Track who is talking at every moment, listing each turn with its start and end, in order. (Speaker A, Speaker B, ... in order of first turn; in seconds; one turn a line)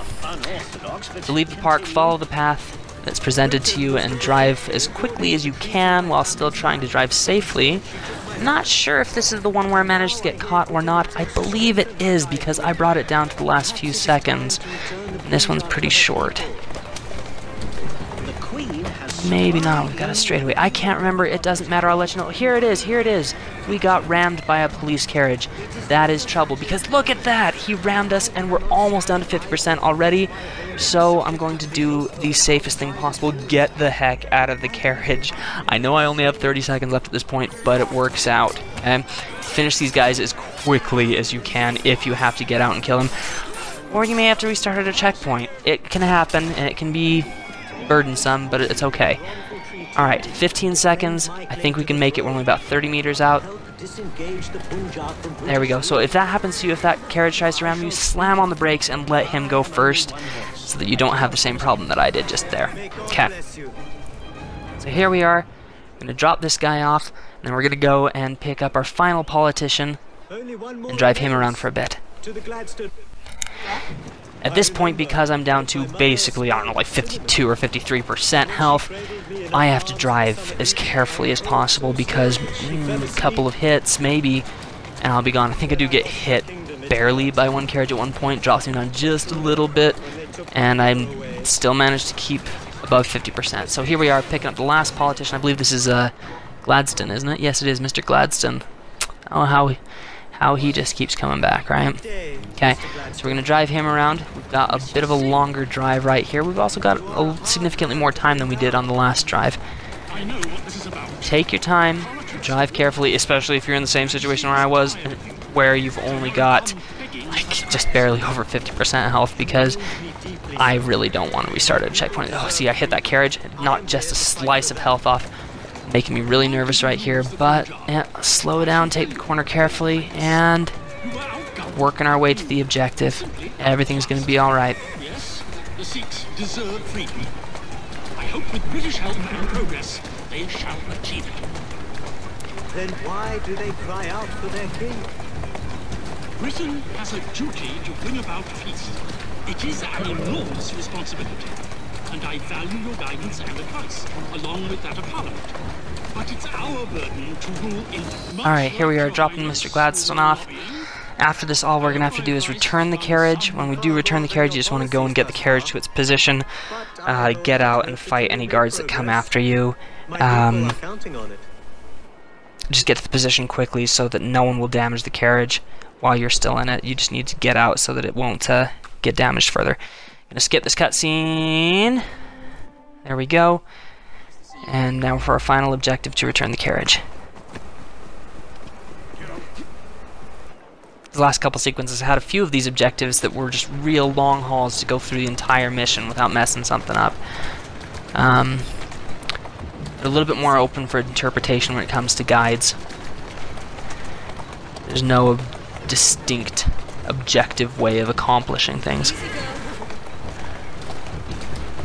Speaker A: 0.9-1.2
Speaker B: 1.2-14.6
Speaker C: 3.6-6.8
Speaker C: 10.4-10.7
Speaker C: 11.5-12.8
Speaker C: 13.8-16.6
Speaker B: 15.2-16.5
Speaker A: 18.4-19.1
Speaker B: 19.1-43.1
Speaker B: 43.9-47.3
Speaker B: 47.9-49.2
Speaker B: 50.0-53.5
Speaker C: 51.1-52.2
Speaker C: 53.5-55.9
Speaker B: 55.5-63.3
Speaker C: 62.7-63.8
Speaker B: 64.8-65.5
Speaker B: 66.0-70.0
Speaker C: 70.4-71.5
Speaker B: 70.9-72.0
Speaker C: 72.3-72.9
Speaker B: 74.4-79.0
Speaker C: 74.7-77.3
Speaker C: 78.7-83.4
Speaker B: 79.5-84.5
Speaker B: 85.0-98.7
Speaker C: 85.9-87.0
Speaker C: 90.8-91.4
Speaker B: 99.3-99.8
Speaker B: 100.3-109.6
Speaker C: 107.4-107.9
Speaker A: 110.2-111.2
Speaker B: 111.2-119.8
Speaker C: 120.0-120.6
Speaker B: 120.6-125.3
Speaker C: 122.1-122.8
Speaker C: 123.6-124.9
Speaker B: 125.8-130.8
Speaker A: 131.2-131.5
Speaker B: 131.6-134.8
Speaker A: 135.1-137.3
Speaker A: 138.2-141.4
Speaker C: 142.7-145.1
Speaker A: 146.4-149.0
Speaker A: 149.5-151.5
Speaker A: 152.1-155.5
Speaker A: 156.2-158.4
Speaker B: 158.4-160.6
Speaker B: 161.2-166.5
Speaker C: 163.9-165.7
Speaker C: 166.8-169.2
Speaker B: 167.0-170.8
Speaker C: 170.1-171.4
Speaker B: 172.7-179.8
Speaker B: 180.3-182.1
Speaker B: 183.0-183.6
Speaker B: 184.6-187.0
Speaker B: 191.1-197.2
Speaker B: 198.2-198.7
Speaker B: 200.0-202.8
Speaker B: 204.9-209.3